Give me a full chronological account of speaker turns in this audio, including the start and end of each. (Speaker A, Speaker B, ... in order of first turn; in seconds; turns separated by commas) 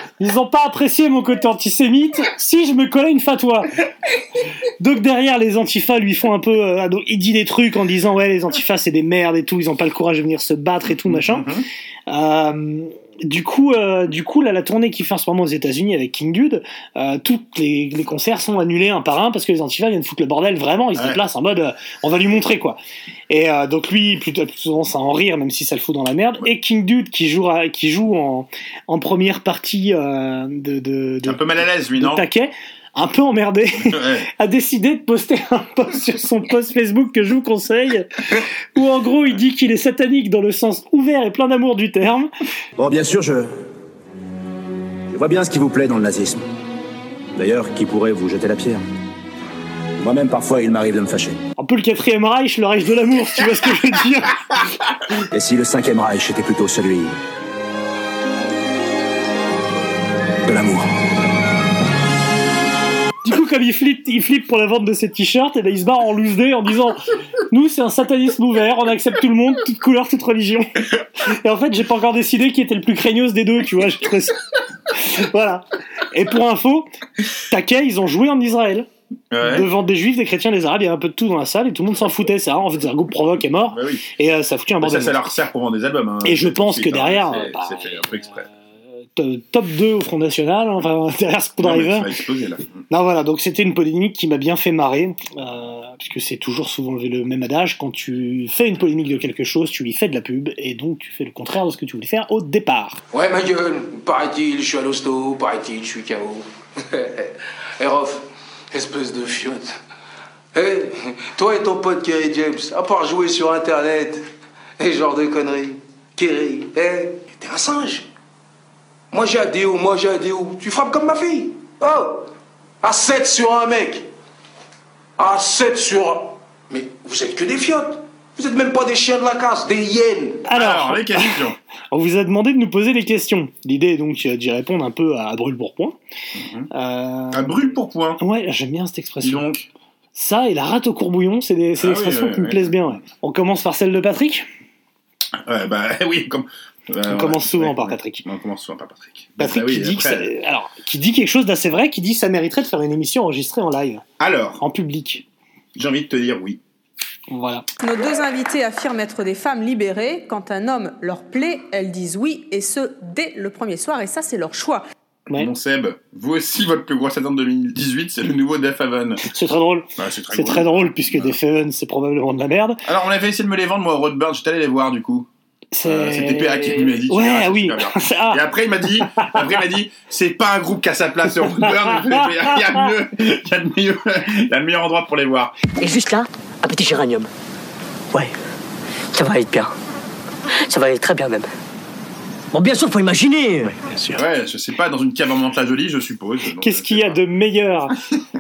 Speaker A: 0.2-3.8, Speaker A: 4.8-11.5, Speaker B: 11.0-11.7, Speaker A: 12.1-22.8, Speaker B: 20.9-21.2, Speaker A: 23.3-42.3, Speaker B: 31.2-32.3, Speaker B: 33.8-34.3, Speaker C: 42.8-43.5, Speaker C: 45.1-46.4, Speaker C: 47.4-48.8, Speaker C: 50.0-51.4, Speaker A: 51.6-54.4, Speaker C: 55.3-57.1, Speaker C: 60.5-60.9, Speaker A: 63.2-78.9, Speaker B: 79.3-79.7, Speaker A: 79.4-85.2, Speaker B: 83.7-84.0, Speaker B: 84.8-88.5, Speaker A: 86.2-88.2, Speaker A: 89.2-92.1, Speaker B: 91.6-92.8, Speaker A: 92.9-103.0, Speaker D: 103.1-109.8, Speaker D: 110.5-114.3, Speaker D: 114.8-118.1, Speaker D: 119.1-122.3, Speaker D: 122.8-124.1, Speaker D: 125.2-130.4, Speaker A: 130.5-136.0, Speaker B: 130.5-131.6, Speaker B: 136.3-136.7, Speaker A: 136.7-137.6, Speaker B: 137.3-138.2, Speaker A: 138.2-139.4, Speaker B: 139.2-139.7, Speaker A: 140.2-144.5, Speaker B: 141.8-142.8, Speaker B: 145.4-150.3, Speaker A: 147.1-148.2, Speaker A: 149.4-154.0, Speaker B: 154.2-154.6, Speaker A: 154.6-155.2, Speaker B: 155.8-156.6, Speaker A: 157.3-157.7, Speaker E: 157.8-164.8, Speaker B: 165.3-169.2, Speaker A: 169.2-172.8, Speaker B: 170.0-171.4, Speaker B: 172.8-175.3, Speaker A: 175.7-178.4, Speaker B: 175.8-185.6, Speaker A: 179.1-179.5, Speaker A: 181.4-182.8, Speaker F: 185.8-187.3, Speaker F: 189.1-189.7, Speaker F: 190.7-191.5, Speaker F: 192.5-194.2, Speaker B: 194.1-197.2, Speaker A: 196.6-198.0